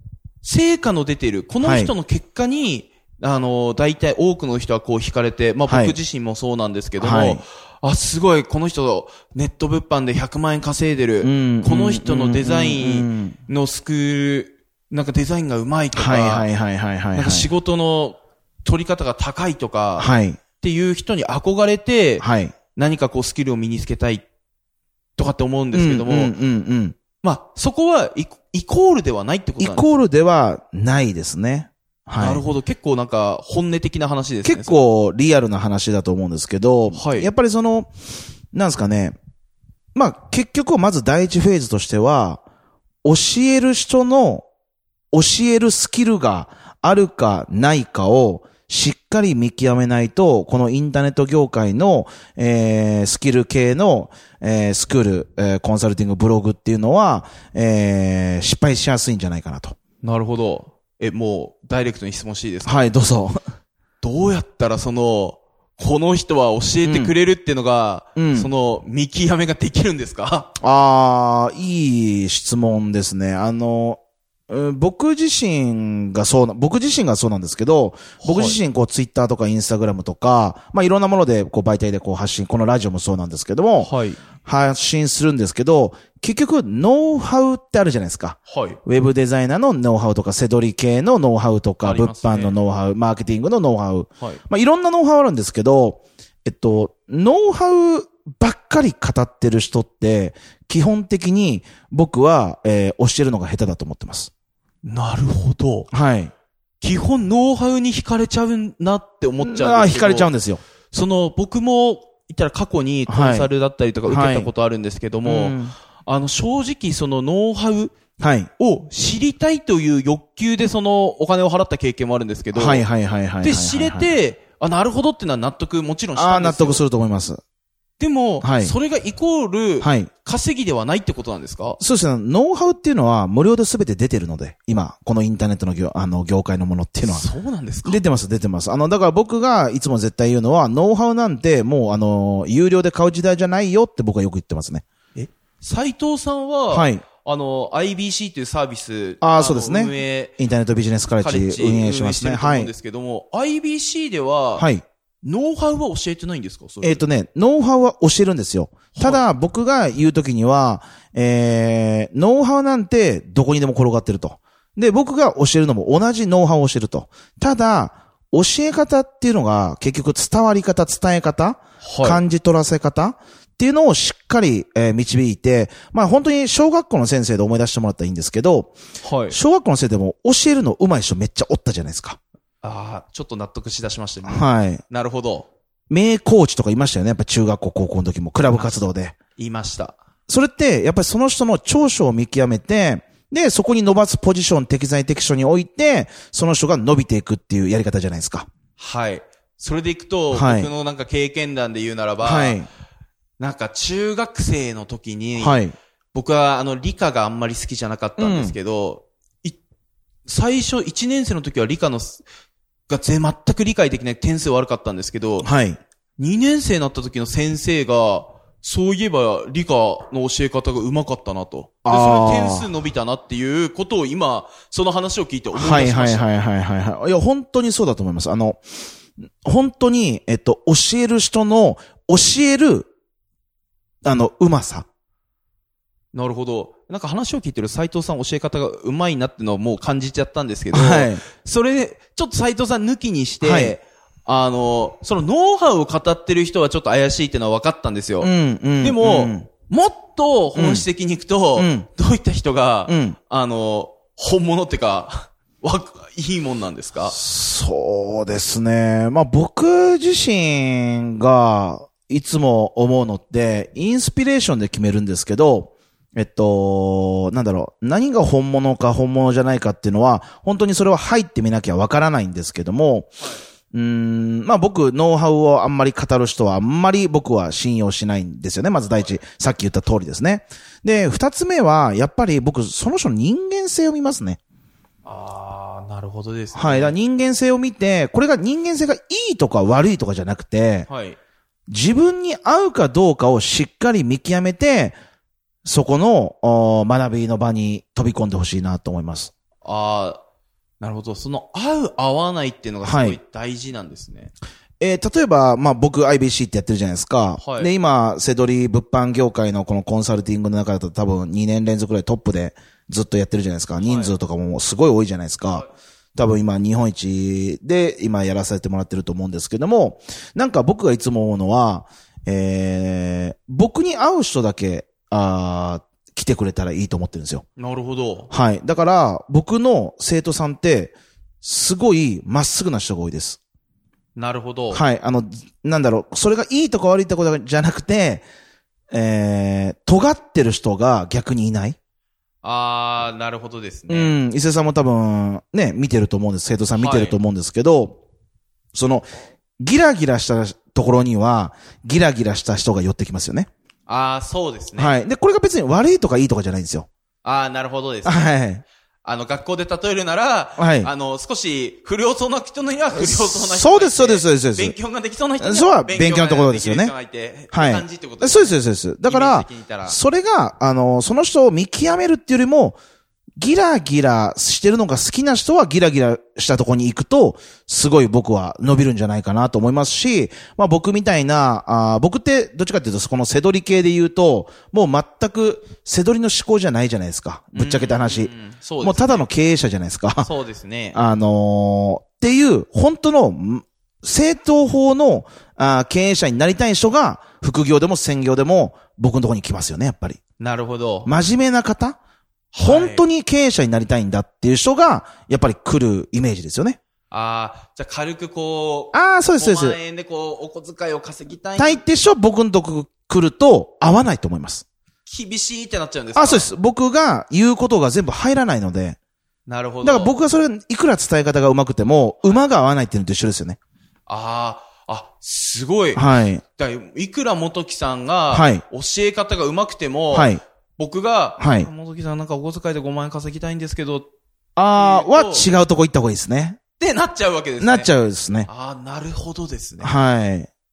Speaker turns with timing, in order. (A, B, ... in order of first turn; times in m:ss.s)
0:00.4-0:16.5 A
0:01.6-0:01.9 B
0:05.7-0:06.0 B
0:07.0-0:07.4 B
0:11.2-0:13.4 B
0:16.0-0:17.5 B
0:17.1-0:24.3 A
0:20.0-0:20.4 B
0:22.2-0:22.6 B
0:25.2-0:26.4 A
0:25.7-0:27.0 B
0:27.2-0:29.9 A
0:29.6-0:32.4 B
0:32.2-0:34.8 A
0:34.4-0:37.9 B
0:36.9-0:37.3 A
0:38.5-0:39.2 B
0:40.0-0:42.4 B
0:43.0-0:44.4 B
0:45.1-0:59.8 B
1:00.0-1:02.8 A
1:02.6-1:03.4 B
1:04.0-1:10.5 A
1:06.8-1:07.2 B
1:08.2-1:08.5 B
1:10.6-1:23.9 B
1:18.2-1:18.6 A
1:23.8-1:24.2 A
1:24.4-1:44.3 B
1:28.5-1:28.8 A
1:31.8-1:32.6 A
1:44.8-1:45.9 A
1:45.9-1:46.3 B
1:46.8-1:50.3 A
1:49.4-1:50.6 B
1:50.9-1:58.0 A
1:53.1-1:53.5 B
1:54.1-1:54.5 B
1:55.2-1:55.8 B
1:58.2-1:58.5 B
1:58.6-2:02.9 A
2:02.5-2:04.1 B
2:03.4-2:06.8 A
2:06.2-2:07.4 B
2:08.0-2:11.8 A
2:08.4-2:08.8 B
2:09.8-2:10.1 B
2:11.8-2:17.3 B
2:17.0-2:18.0 A
2:17.8-2:24.8 B
2:25.2-2:30.4 A
2:26.7-2:27.0 B
2:29.2-2:32.7 B
2:31.2-2:34.7 A
2:34.6-2:34.8 B
2:35.2-2:37.0 A
2:36.8-2:58.8 B
2:38.9-2:39.3 A
2:51.8-2:52.2 A
2:59.0-2:59.4 A
2:59.3-3:02.2 B
3:02.6-3:05.5 A
3:04.2-3:04.8 B
3:05.9-3:09.2 B
3:09.4-3:10.0 A
3:10.3-3:18.5 B
3:18.8-3:22.6 A
3:20.3-3:20.7 B
3:22.2-3:22.7 B
3:23.4-3:29.6 A
3:25.4-3:25.8 B
3:28.2-3:28.6 B
3:30.3-3:32.2 A
3:32.9-3:35.5 A
3:35.4-3:35.8 B
3:36.2-3:46.3 A
3:41.8-3:42.7 B
3:45.5-3:48.6 B
3:49.4-3:52.9 B
3:54.0-3:54.9 B
3:56.1-4:17.2 A
4:00.7-4:01.2 B
4:03.4-4:03.8 B
4:08.2-4:09.5 B
4:10.5-4:10.9 B
4:11.6-4:11.9 B
4:12.9-4:13.2 B
4:17.1-4:33.1 B
4:33.7-4:44.4 B
4:45.0-4:47.0 A
4:46.5-4:50.9 B
4:50.9-4:51.2 A
4:51.7-4:55.0 B
4:55.6-4:59.3 B
4:59.6-5:00.2 A
5:00.8-5:04.3 A
5:02.8-5:03.2 B
5:04.8-5:27.4 B
5:07.4-5:07.7 A
5:13.8-5:14.1 A
5:27.6-5:28.3 A
5:28.3-5:33.4 B
5:34.2-5:34.8 A
5:34.7-5:38.3 B
5:38.9-5:41.8 B
5:42.4-5:44.2 A
5:43.9-5:48.0 B
5:46.7-5:47.2 A
5:48.7-5:53.5 B
5:53.9-5:55.0 A
5:54.8-5:56.9 B
5:57.2-5:58.3 A
5:58.0-5:58.6 B
5:59.0-6:10.0 A
6:00.6-6:00.9 B
6:02.9-6:04.8 B
6:05.4-6:06.9 B
6:07.5-6:12.8 B
6:13.4-6:28.3 B
6:27.6-6:29.3 A
6:28.8-6:30.3 B
6:30.2-6:31.0 A
6:30.9-6:40.2 B
6:40.4-6:41.1 A
6:41.0-6:42.0 B
6:42.5-6:43.0 A
6:42.6-6:46.8 B
6:47.1-6:51.9 A
6:48.9-6:49.8 B
6:51.6-6:54.7 B
6:55.1-6:56.5 A
6:56.2-6:59.0 B
6:59.5-7:00.2 A
6:59.8-7:03.6 B
7:04.1-7:14.1 A
7:06.0-7:06.4 B
7:08.3-7:08.6 B
7:10.1-7:10.4 B
7:11.4-7:11.7 B
7:14.6-7:16.6 B
7:14.7-7:15.5 A
7:16.8-7:17.9 A
7:17.6-7:18.5 B
7:18.5-7:19.9 A
7:19.8-7:20.5 B